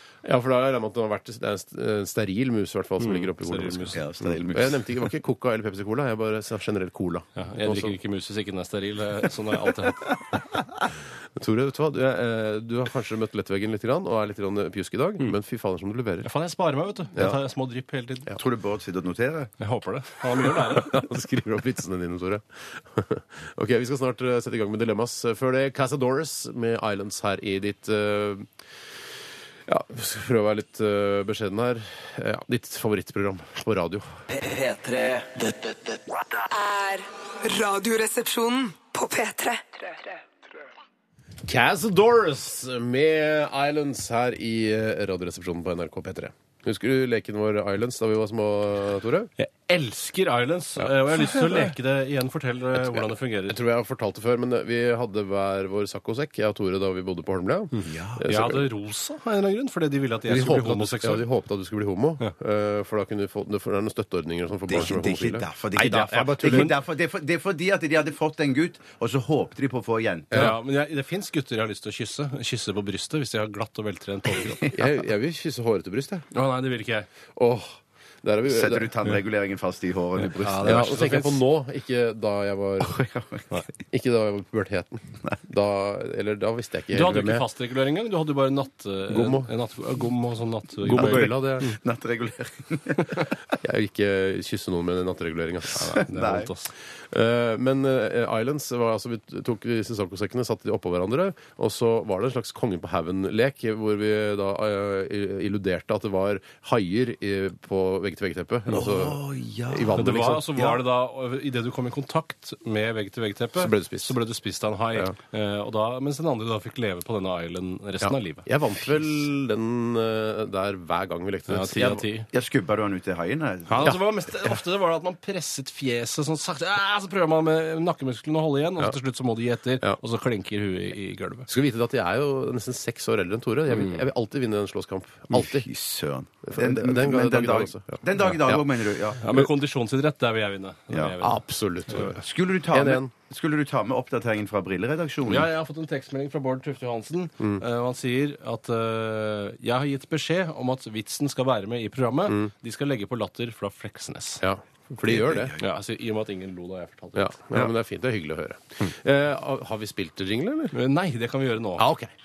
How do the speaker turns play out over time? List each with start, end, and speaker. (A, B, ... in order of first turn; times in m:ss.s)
0:00.2-0:08.0 A
0:03.0-0:04.0 B
0:03.9-0:04.9 C
0:07.4-0:10.2 B
0:11.4-0:16.3 A
0:16.2-0:18.4 B
0:18.4-0:19.5 C
0:19.6-0:21.0 B
0:20.5-0:28.5 A
0:29.7-0:34.1 A
0:34.3-0:36.4 D
0:36.5-0:39.9 E
0:41.4-0:49.3 A
0:49.4-0:53.6 B
0:51.1-0:51.7 A
0:52.8-0:58.7 A
0:57.8-0:58.2 C
0:58.2-1:01.3 B
1:00.3-1:06.8 A
1:04.7-1:10.5 C
1:06.4-1:06.7 B
1:10.3-1:14.8 B
1:14.7-1:16.3 A
1:16.3-1:17.1 B
1:17.4-1:18.9 A
1:18.5-1:21.2 C
1:20.2-1:21.4 B
1:20.6-1:23.0 A
1:22.8-1:23.5 C
1:23.9-1:27.5 A
1:26.9-1:31.7 B
1:29.1-1:29.5 A
1:30.8-1:31.7 A
1:31.0-1:33.2 C
1:33.6-1:36.0 A
1:35.8-1:36.7 B
1:36.0-1:36.5 C
1:37.1-1:50.5 A
1:48.7-1:50.8 C
1:50.0-1:58.5 B
1:53.6-1:54.2 A
1:58.0-2:02.0 A
2:01.5-2:02.3 B
2:02.3-2:04.0 C
2:03.7-2:11.5 B
2:11.5-2:15.7 A
2:15.3-2:19.3 C
2:16.5-2:18.6 A
2:19.2-2:21.4 B
2:21.2-2:23.1 A
2:22.0-2:25.5 C
2:25.2-2:34.4 B
2:34.4-2:35.6 A
2:35.5-2:37.3 B
2:37.1-2:40.8 A
2:40.7-2:41.8 B
2:41.8-2:42.1 A